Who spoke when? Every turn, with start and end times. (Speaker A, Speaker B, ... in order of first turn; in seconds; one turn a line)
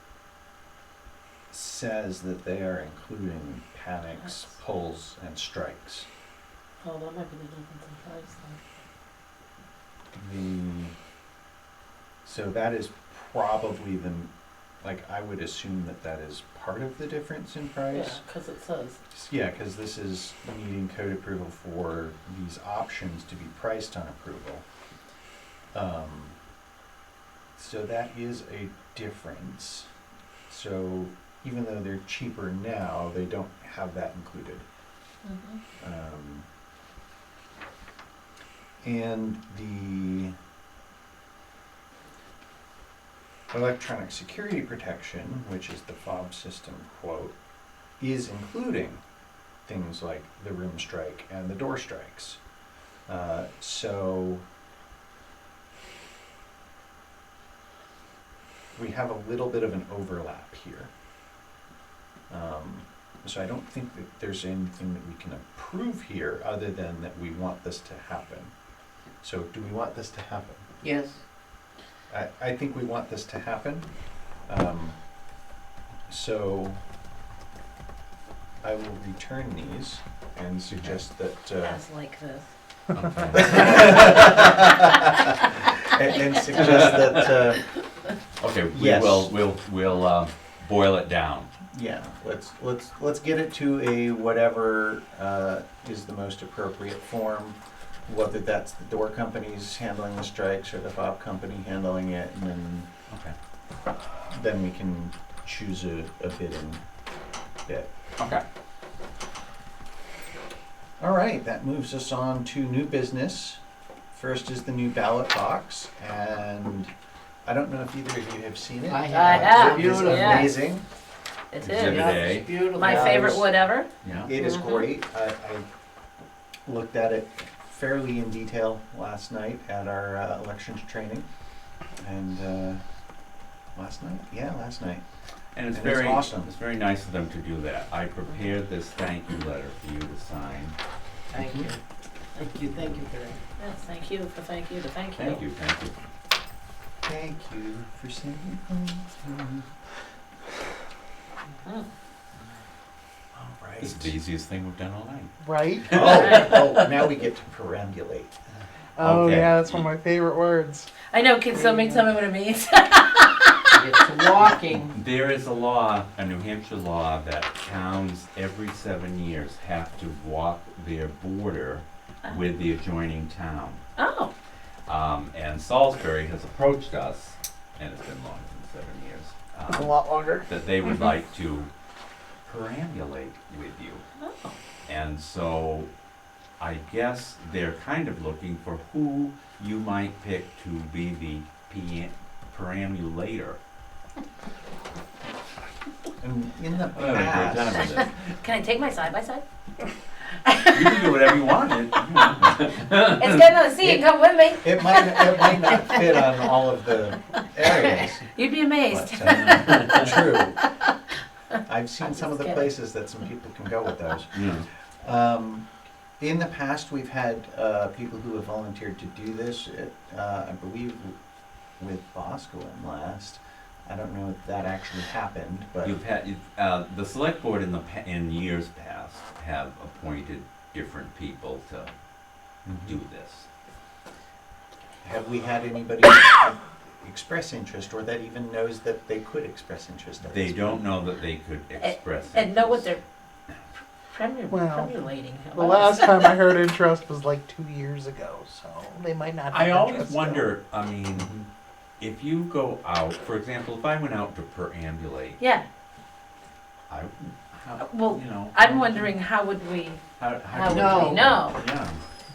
Speaker A: 1.5-6.1
Speaker B: 6.8-8.6
Speaker A: 10.1-10.9
Speaker A: 12.2-14.3
Speaker A: 14.8-18.2
Speaker B: 17.9-19.0
Speaker A: 19.1-24.6
Speaker A: 25.7-26.3
Speaker A: 27.6-29.9
Speaker A: 30.5-34.6
Speaker B: 35.2-35.6
Speaker A: 35.8-36.4
Speaker A: 38.8-40.3
Speaker A: 43.5-47.3
Speaker A: 48.0-49.0
Speaker A: 49.6-52.4
Speaker A: 53.1-54.4
Speaker A: 58.7-60.9
Speaker A: 62.3-68.5
Speaker A: 69.2-70.6
Speaker C: 70.8-71.2
Speaker A: 72.1-73.9
Speaker A: 74.5-74.9
Speaker A: 76.1-76.8
Speaker A: 78.6-81.8
Speaker D: 80.7-81.0
Speaker B: 81.6-82.5
Speaker D: 82.9-84.4
Speaker A: 83.3-87.6
Speaker B: 83.5-84.3
Speaker B: 85.1-85.3
Speaker D: 86.5-87.3
Speaker D: 88.4-91.5
Speaker A: 88.7-89.3
Speaker A: 91.7-102.9
Speaker D: 103.1-103.3
Speaker A: 104.3-106.8
Speaker D: 108.2-108.4
Speaker A: 111.0-113.6
Speaker A: 114.1-116.9
Speaker A: 117.4-120.8
Speaker C: 118.9-120.6
Speaker B: 119.1-120.5
Speaker B: 121.5-124.9
Speaker D: 121.6-122.5
Speaker C: 121.8-123.4
Speaker A: 122.8-123.4
Speaker D: 124.0-124.3
Speaker A: 124.2-125.7
Speaker A: 126.7-131.2
Speaker A: 132.0-132.8
Speaker A: 133.7-135.0
Speaker D: 135.5-140.8
Speaker A: 135.7-136.5
Speaker C: 141.3-141.8
Speaker A: 141.3-141.7
Speaker C: 142.3-143.4
Speaker B: 143.6-145.4
Speaker D: 145.2-145.9
Speaker A: 147.0-149.7
Speaker A: 153.3-154.1
Speaker D: 153.8-155.3
Speaker E: 155.4-155.9
Speaker D: 155.8-156.6
Speaker A: 155.9-158.3
Speaker B: 156.1-156.4
Speaker E: 159.0-160.9
Speaker D: 159.0-159.9
Speaker B: 161.0-163.8
Speaker C: 161.5-162.1
Speaker C: 163.7-164.9
Speaker D: 164.4-173.8
Speaker B: 174.0-174.3
Speaker D: 174.9-181.7
Speaker E: 179.7-180.5
Speaker D: 182.4-184.0
Speaker B: 184.2-184.5
Speaker D: 184.9-185.9
Speaker D: 186.6-193.6
Speaker A: 196.2-197.9
Speaker D: 196.9-198.3
Speaker B: 197.9-199.4
Speaker B: 200.4-200.8
Speaker D: 200.7-203.4
Speaker B: 203.1-206.2
Speaker A: 203.8-210.6
Speaker B: 207.7-210.4
Speaker D: 209.2-210.2
Speaker A: 211.6-214.4
Speaker B: 212.1-212.5
Speaker D: 214.3-214.7
Speaker A: 215.0-215.6
Speaker A: 216.2-221.2
Speaker A: 221.8-225.9
Speaker D: 225.8-231.9
Speaker A: 232.6-232.9
Speaker D: 232.8-233.5
Speaker A: 235.0-240.9
Speaker D: 240.2-242.9
Speaker B: 241.8-243.0
Speaker B: 244.1-246.4
Speaker E: 244.5-250.5
Speaker D: 249.5-251.4
Speaker D: 252.0-255.4
Speaker B: 255.4-255.7
Speaker D: 256.9-259.1
Speaker B: 257.8-261.6
Speaker D: 260.2-262.0
Speaker C: 260.6-261.3